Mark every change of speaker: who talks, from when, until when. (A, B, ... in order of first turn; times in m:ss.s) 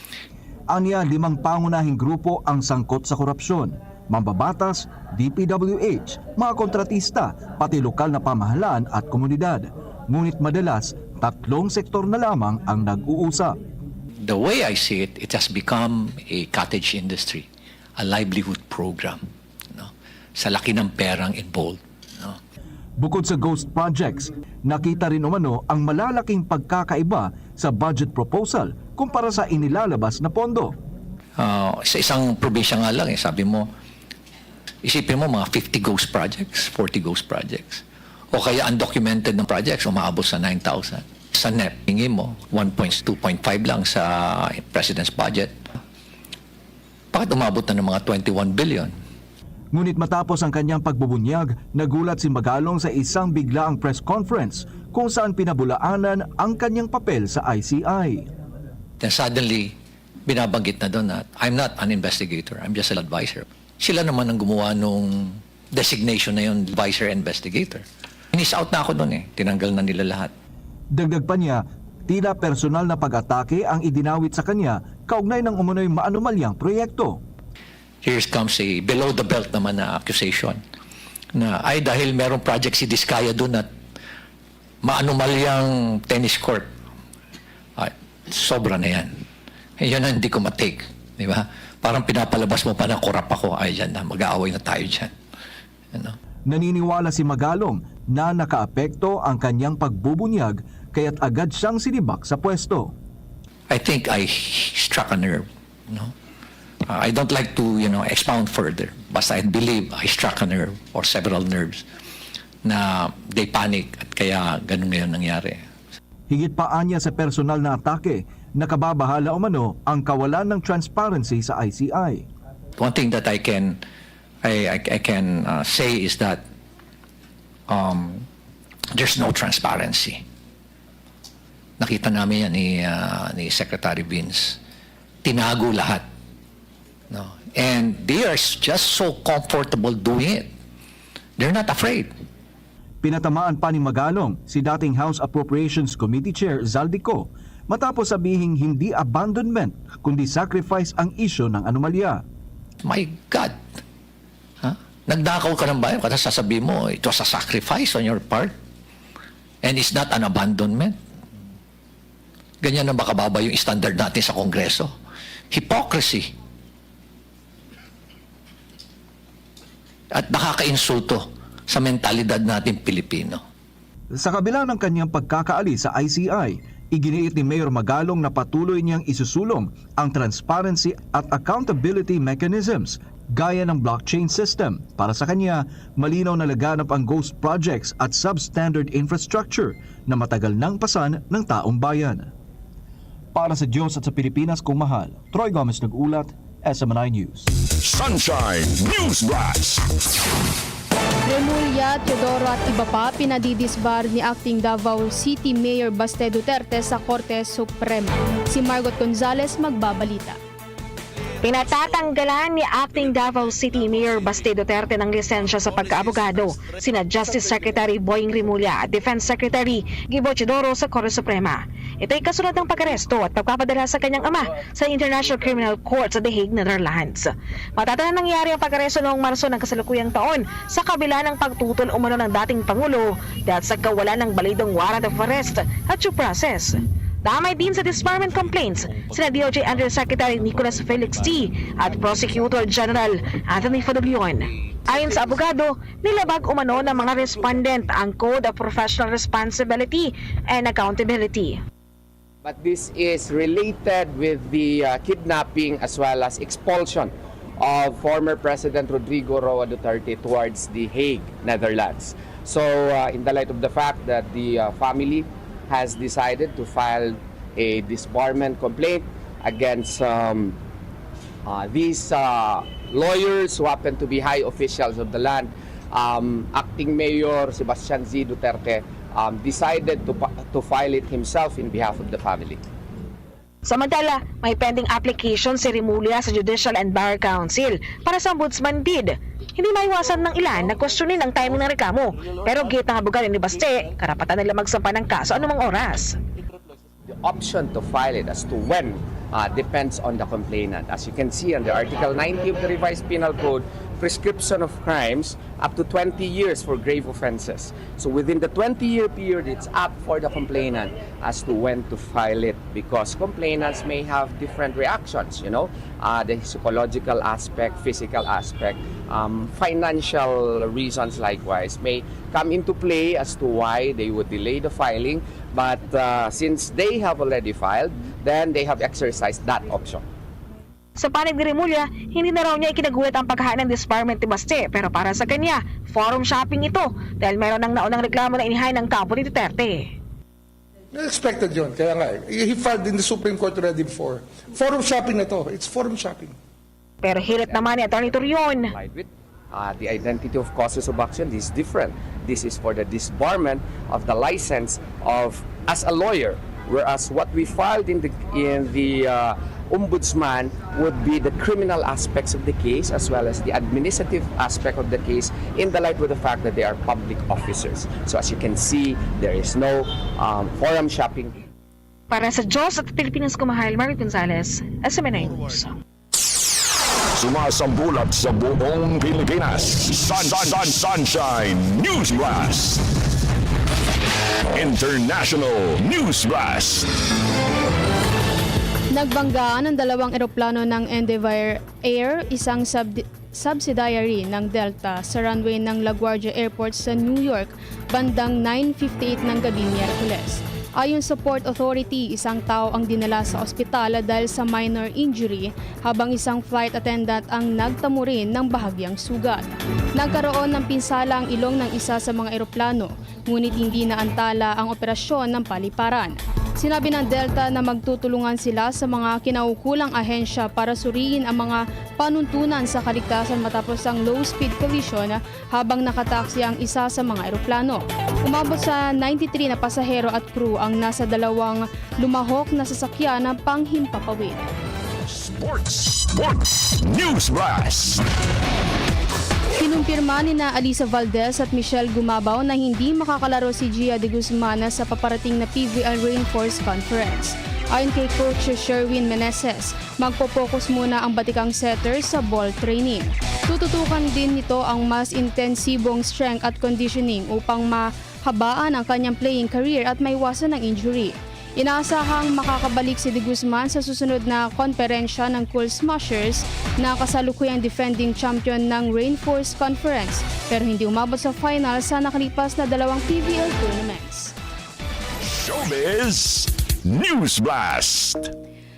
0:00.7-0:13.6 A
0:14.2-0:17.5 B
0:18.0-0:22.4 B
0:23.0-0:30.7 A
0:31.4-0:33.7 B
0:34.8-0:45.6 B
0:47.1-0:48.9 B
0:49.7-0:58.3 A
0:59.0-0:59.7 B
1:00.3-1:10.3 B
1:10.9-1:17.2 A
1:18.0-1:20.6 B
1:21.3-1:23.7 B
1:24.8-1:26.7 B
1:27.8-1:29.2 B
1:29.8-1:35.1 B
1:36.5-1:42.9 A
1:43.7-1:46.1 B
1:46.9-1:51.8 B
1:52.6-1:55.6 B
1:56.3-2:02.2 A
2:02.8-2:03.8 B
2:04.4-2:06.4 B
2:07.7-2:08.2 B
2:08.9-2:10.2 B
2:11.8-2:14.6 B
2:15.2-2:16.0 B
2:17.1-2:20.5 B
2:21.4-2:22.1 B
2:23.0-2:32.2 A
2:32.8-2:33.6 B
2:34.6-2:38.5 B
2:39.6-2:41.0 B
2:42.6-2:44.9 B
2:45.5-2:46.3 B
2:50.1-2:53.4 B
2:54.2-3:12.3 A
3:13.3-3:17.5 A
3:17.8-3:19.8 C
3:21.2-3:30.4 D
3:31.4-4:11.6 E
4:12.4-4:30.6 F
4:31.4-4:42.6 F
4:43.6-4:56.2 E
4:57.1-5:30.0 F
5:31.0-5:39.9 E
5:40.9-5:46.3 G
5:47.0-5:48.7 E
5:47.4-5:48.2 F
5:48.7-6:11.4 F
6:12.1-6:15.7 E
6:17.2-6:22.8 C
6:24.5-6:26.9 C
6:28.9-7:14.5 D
7:15.0-7:18.0 C
7:19.6-7:54.3 D
7:55.2-7:58.3 C